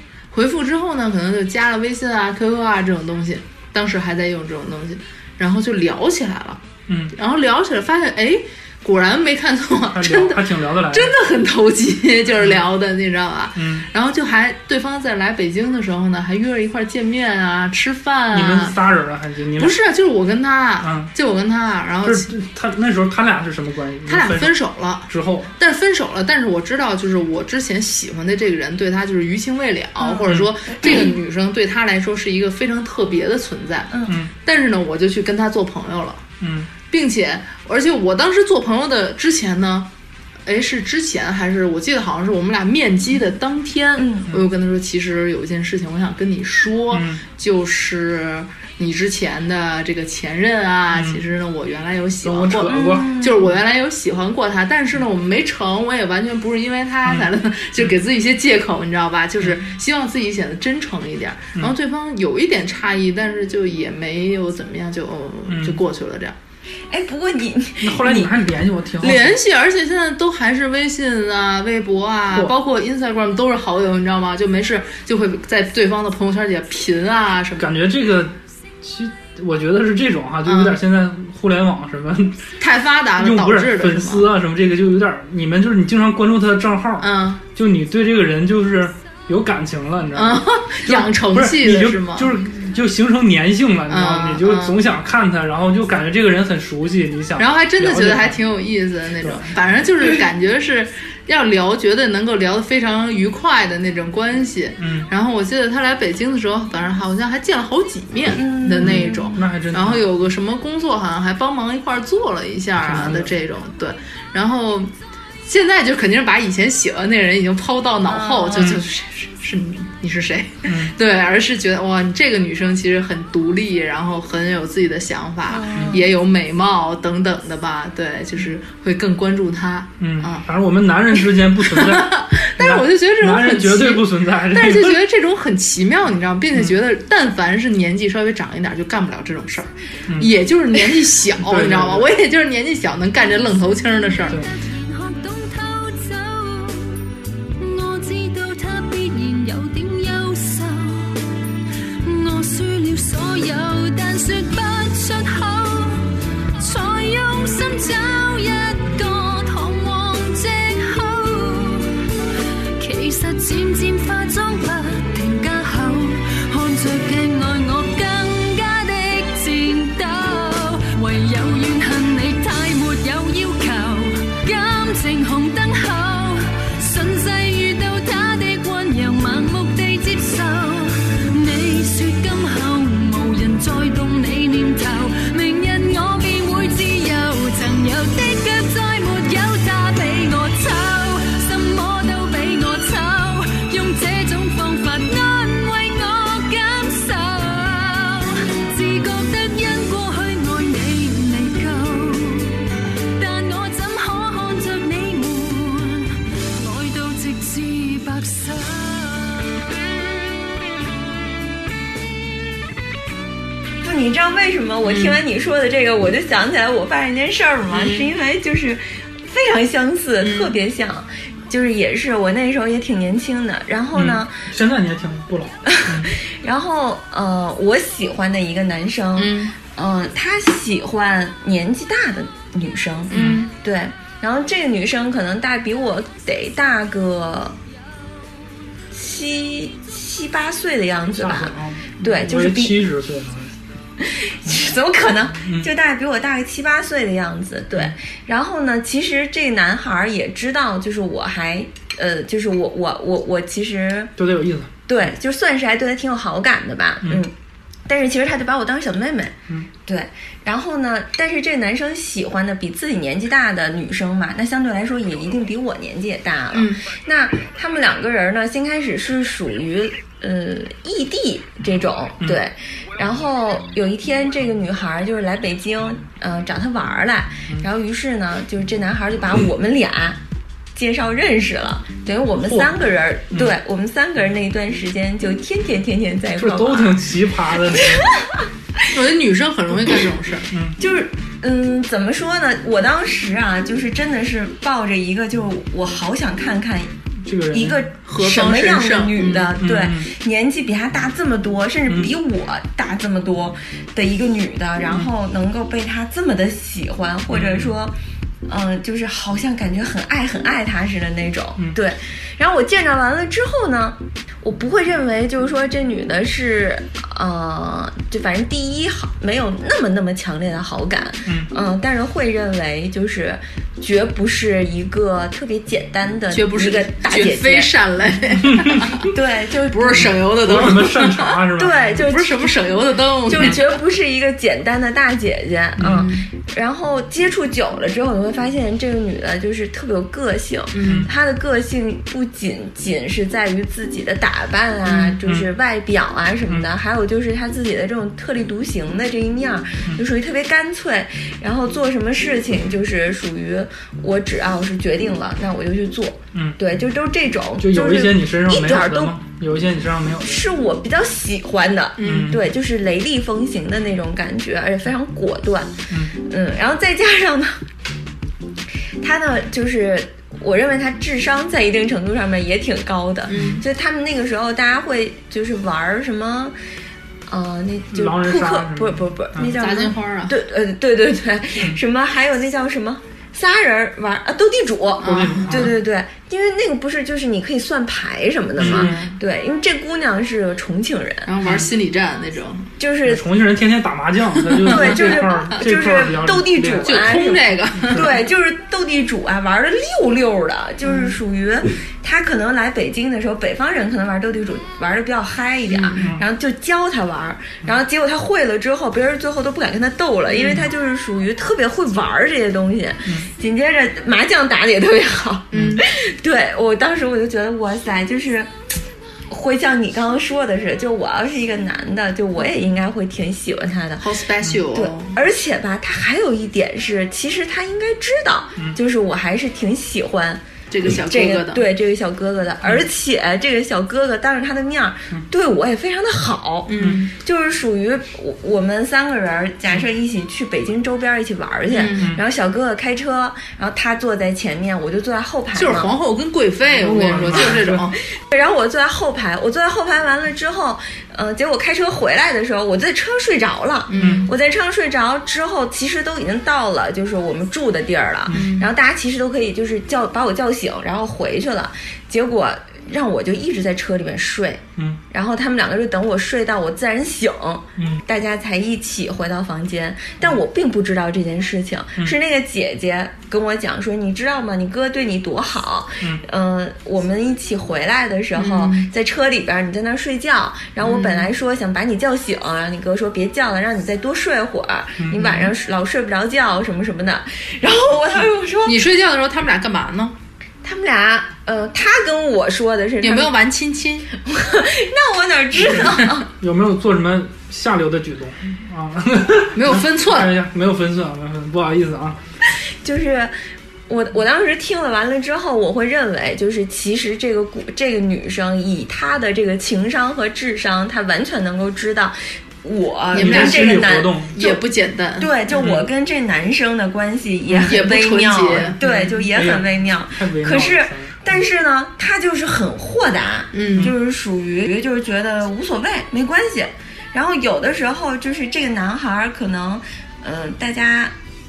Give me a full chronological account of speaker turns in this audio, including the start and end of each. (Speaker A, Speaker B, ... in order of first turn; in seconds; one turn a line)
Speaker A: 0.3-6.6
Speaker B: 6.9-7.2
Speaker A: 7.1-18.8
Speaker B: 9.9-11.2
Speaker B: 12.4-12.6
Speaker B: 13.6-13.9
Speaker B: 18.3-19.8
Speaker A: 19.6-22.3
Speaker B: 20.8-21.1
Speaker B: 22.0-25.5
Speaker A: 24.1-36.3
Speaker B: 30.2-30.5
Speaker B: 36.4-36.7
Speaker A: 36.9-39.9
Speaker A: 40.5-66.4
Speaker C: 44.0-44.3
Speaker B: 46.9-47.2
Speaker B: 50.9-51.2
Speaker B: 52.2-53.2
Speaker C: 52.7-53.5
Speaker B: 57.0-58.0
Speaker B: 65.5-65.8
Speaker C: 66.9-68.3
Speaker B: 67.8-69.4
Speaker A: 69.0-77.7
Speaker B: 77.6-82.5
Speaker A: 80.4-80.8
Speaker A: 82.6-84.2
Speaker B: 83.2-98.4
Speaker A: 87.0-87.4
Speaker A: 90.2-92.4
Speaker A: 93.9-94.8
Speaker A: 97.4-114.9
Speaker B: 99.2-99.6
Speaker B: 104.8-105.1
Speaker C: 108.3-109.4
Speaker B: 108.8-110.0
Speaker B: 112.8-113.4
Speaker A: 115.4-130.4
Speaker C: 118.1-118.8
Speaker B: 118.5-118.8
Speaker B: 120.7-121.0
Speaker C: 125.5-126.1
Speaker B: 130.0-135.0
Speaker A: 131.6-144.4
Speaker B: 140.1-140.3
Speaker B: 141.3-142.2
Speaker D: 144.9-147.0
Speaker D: 147.6-151.1
Speaker D: 152.0-156.0
Speaker D: 156.6-161.9
Speaker D: 162.8-202.6
Speaker D: 203.2-209.4
Speaker C: 213.8-224.3
Speaker A: 214.8-215.2
Speaker A: 217.7-218.1
Speaker A: 220.2-220.6
Speaker B: 223.9-226.1
Speaker C: 225.7-237.6
Speaker A: 229.2-229.6
Speaker A: 233.1-233.5
Speaker B: 233.1-233.5
Speaker C: 238.9-242.8
Speaker B: 241.1-243.5
Speaker C: 244.0-254.1
Speaker B: 245.4-245.7
Speaker B: 254.2-254.7
Speaker C: 254.9-257.3
Speaker C: 257.9-259.3
Speaker C: 259.9-280.2
Speaker A: 266.5-266.9
Speaker C: 280.8-287.1
Speaker B: 282.4-282.8
Speaker B: 283.3-283.6
Speaker B: 286.4-288.1
Speaker C: 287.8-288.1
Speaker A: 288.9-290.5
Speaker B: 290.5-290.8
Speaker C: 290.8-296.9
Speaker B: 297.2-297.9
Speaker C: 297.5-307.9
Speaker A: 298.1-299.6
Speaker B: 299.6-300.1
Speaker B: 301.9-302.1
Speaker B: 307.3-307.8
Speaker C: 308.5-327.7
Speaker A: 326.3-329.1
Speaker B: 328.5-328.9
Speaker C: 329.1-330.2
Speaker A: 329.7-331.4
Speaker B: 330.2-332.1
Speaker C: 331.6-332.5
Speaker A: 331.9-333.8
Speaker C: 333.3-359.2
Speaker B: 335.8-336.1
Speaker A: 335.8-336.3
Speaker A: 340.7-341.1
Speaker B: 340.8-341.1
Speaker A: 344.9-345.2
Speaker B: 345.2-345.5
Speaker B: 356.3-356.6
Speaker B: 357.6-360.5
Speaker C: 360.2-367.6
Speaker A: 362.0-362.4
Speaker B: 362.0-362.4
Speaker C: 369.0-376.5
Speaker A: 373.3-373.6
Speaker B: 373.3-373.6
Speaker C: 377.3-391.3
Speaker B: 377.9-379.6
Speaker A: 379.5-380.4
Speaker A: 385.0-385.7
Speaker B: 385.0-385.8
Speaker B: 388.6-389.2
Speaker A: 388.6-389.1
Speaker A: 391.2-392.7
Speaker B: 391.4-391.7
Speaker C: 392.8-393.2
Speaker B: 393.1-397.2
Speaker A: 394.4-395.6
Speaker C: 394.7-418.5
Speaker A: 396.8-398.2
Speaker B: 397.8-398.2
Speaker A: 400.8-401.2
Speaker A: 405.7-406.1
Speaker B: 406.0-406.2
Speaker A: 410.3-410.6
Speaker A: 415.5-415.8
Speaker B: 415.5-415.8
Speaker C: 419.3-424.1
Speaker A: 424.0-425.2
Speaker C: 424.7-430.4
Speaker A: 430.7-431.7
Speaker C: 431.0-445.9
Speaker A: 436.7-437.1
Speaker B: 436.8-437.1
Speaker A: 441.7-442.2
Speaker A: 445.6-447.9
Speaker B: 446.7-447.9
Speaker C: 448.3-488.8
Speaker A: 453.9-454.3
Speaker B: 454.0-454.3
Speaker B: 458.3-458.5
Speaker A: 458.3-458.7
Speaker B: 467.8-468.0
Speaker A: 478.4-478.9
Speaker A: 480.8-481.3
Speaker B: 485.0-485.4
Speaker A: 485.2-485.5
Speaker A: 488.6-490.1
Speaker C: 490.6-493.3
Speaker A: 493.0-494.1
Speaker C: 494.2-496.3
Speaker A: 495.6-495.9
Speaker B: 496.4-502.2
Speaker A: 499.6-500.3
Speaker C: 502.8-503.3
Speaker C: 503.9-514.6
Speaker A: 513.1-515.3
Speaker B: 513.1-514.4
Speaker C: 515.2-531.1
Speaker B: 515.6-515.9
Speaker A: 517.5-519.1
Speaker B: 518.8-521.4
Speaker A: 523.5-523.9